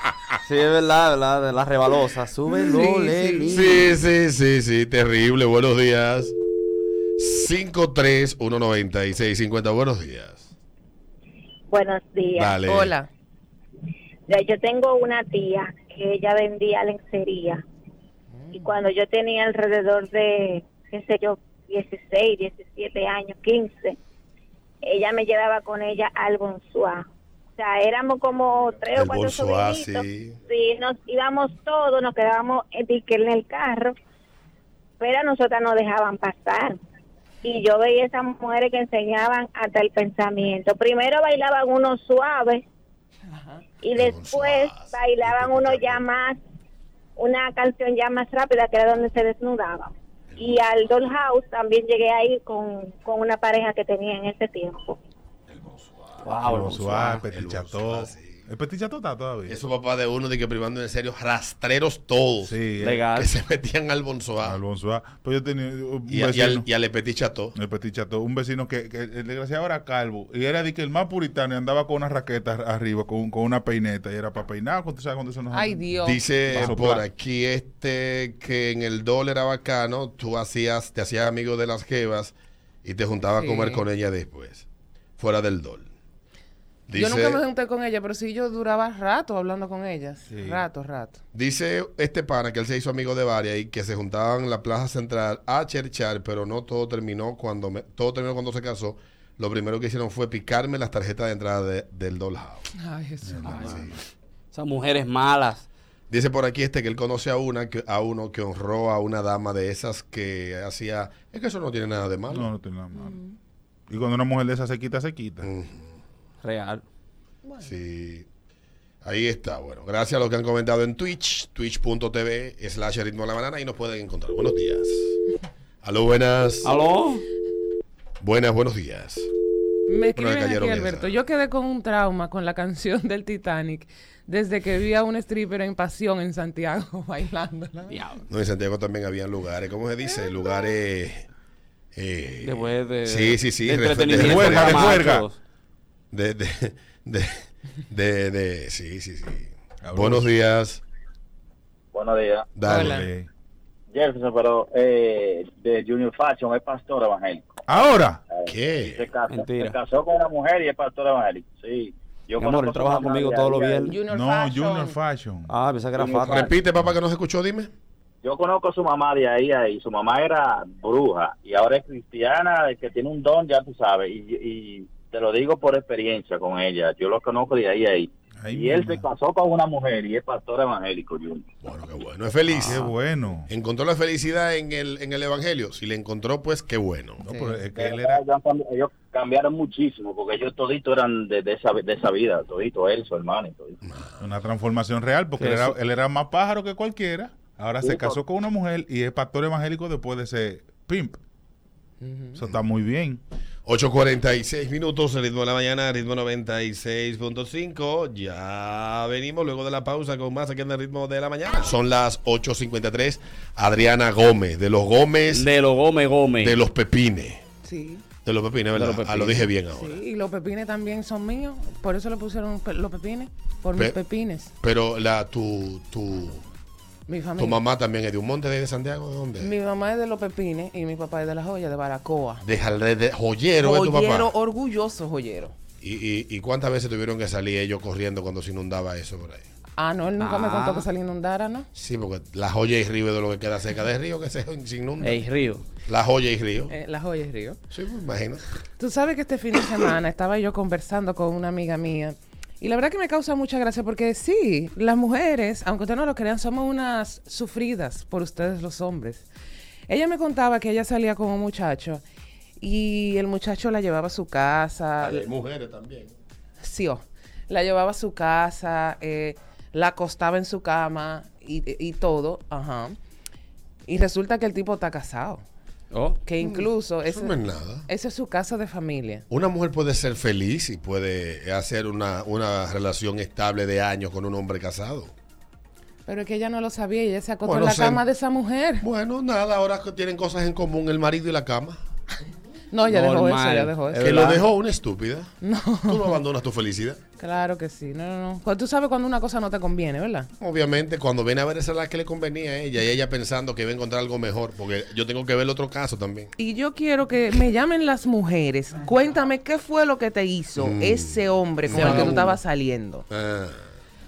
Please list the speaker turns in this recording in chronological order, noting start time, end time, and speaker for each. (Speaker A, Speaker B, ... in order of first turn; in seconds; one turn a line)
Speaker A: 0.4-3.9
Speaker B: 2.5-3.7
Speaker C: 3.5-6.3
Speaker C: 7.2-10.5
Speaker D: 11.7-12.5
Speaker C: 12.3-12.9
Speaker B: 12.6-13.1
Speaker D: 14.3-17.6
Speaker B: 18.3-18.7
Speaker D: 18.6-23.9
Speaker D: 24.8-27.0
Speaker D: 27.6-33.9
Speaker C: 28.9-30.4
Speaker D: 35.0-36.8
Speaker D: 37.4-42.6
Speaker B: 43.3-43.6
Speaker D: 43.8-46.4
Speaker C: 43.9-46.0
Speaker D: 47.2-55.0
Speaker C: 50.3-50.6
Speaker C: 55.5-58.5
Speaker A: 56.2-57.2
Speaker E: 56.4-59.6
Speaker C: 59.5-62.6
Speaker E: 62.4-63.0
Speaker A: 62.8-63.3
Speaker C: 63.1-64.6
Speaker E: 64.4-66.7
Speaker C: 66.1-67.5
Speaker E: 67.5-77.0
Speaker B: 75.5-76.4
Speaker C: 76.0-84.7
Speaker B: 83.3-83.8
Speaker C: 85.2-85.9
Speaker C: 86.9-87.4
Speaker B: 86.9-91.2
Speaker E: 90.3-90.6
Speaker C: 91.3-102.7
Speaker B: 102.7-103.8
Speaker E: 103.2-104.0
Speaker A: 103.4-103.8
Speaker C: 103.4-103.9
Speaker A: 104.5-105.7
Speaker C: 106.1-112.5
Speaker E: 112.3-113.2
Speaker B: 112.9-113.3
Speaker E: 113.9-115.5
Speaker C: 115.4-116.0
Speaker A: 116.4-116.8
Speaker B: 117.4-117.7
Speaker C: 117.6-118.2
Speaker C: 119.0-125.2
Speaker C: 125.8-126.7
Speaker A: 126.6-127.2
Speaker C: 128.2-129.3
Speaker B: 129.9-138.0
Speaker C: 130.1-131.1
Speaker A: 137.9-138.2
Speaker C: 138.3-141.2
Speaker C: 141.9-145.2
Speaker A: 142.4-145.4
Speaker E: 144.1-145.3
Speaker C: 146.1-150.8
Speaker E: 149.8-150.3
Speaker F: 151.9-152.5
Speaker C: 152.6-153.0
Speaker B: 152.7-153.1
Speaker E: 152.7-153.3
Speaker F: 153.9-157.5
Speaker E: 157.7-158.2
Speaker F: 158.3-163.9
Speaker C: 158.4-159.1
Speaker A: 159.3-159.8
Speaker A: 162.4-164.0
Speaker B: 163.8-165.0
Speaker E: 164.1-165.5
Speaker A: 165.5-166.5
Speaker C: 166.0-167.7
Speaker F: 168.2-181.4
Speaker E: 178.4-179.1
Speaker C: 181.6-182.9
Speaker E: 182.5-183.5
Speaker C: 183.5-187.3
Speaker E: 187.2-188.2
Speaker B: 187.2-187.6
Speaker F: 187.7-193.8
Speaker C: 193.8-194.2
Speaker E: 194.2-201.2
Speaker A: 195.4-195.8
Speaker F: 197.8-198.2
Speaker B: 202.0-202.4
Speaker E: 202.3-203.2
Speaker C: 203.6-215.5
Speaker A: 215.3-216.6
Speaker C: 216.4-217.4
Speaker B: 217.6-218.0
Speaker C: 218.2-220.0
Speaker A: 218.7-219.5
Speaker B: 219.7-224.5
Speaker C: 224.6-226.4
Speaker B: 227.1-227.6
Speaker C: 227.4-229.5
Speaker B: 229.4-232.4
Speaker C: 232.4-234.3
Speaker B: 233.6-235.5
Speaker C: 235.8-239.4
Speaker B: 239.8-241.7
Speaker A: 240.2-240.9
Speaker C: 241.7-245.2
Speaker A: 245.0-245.6
Speaker C: 245.8-246.7
Speaker B: 246.7-247.6
Speaker C: 247.7-248.4
Speaker B: 248.8-259.3
Speaker B: 259.9-262.0
Speaker B: 262.6-265.2
Speaker C: 265.0-266.1
Speaker B: 266.6-272.9
Speaker B: 273.9-275.4
Speaker A: 275.9-276.2
Speaker B: 276.2-279.2
Speaker C: 276.4-277.9
Speaker C: 279.3-285.1
Speaker B: 286.1-288.8
Speaker C: 287.4-288.0
Speaker C: 288.8-291.8
Speaker B: 292.7-294.2
Speaker A: 292.9-294.4
Speaker C: 294.0-295.3
Speaker B: 295.4-296.2
Speaker C: 295.9-297.0
Speaker B: 297.2-300.3
Speaker C: 300.4-306.3
Speaker B: 306.4-313.0
Speaker C: 310.6-312.3
Speaker A: 311.7-312.3
Speaker C: 313.1-313.7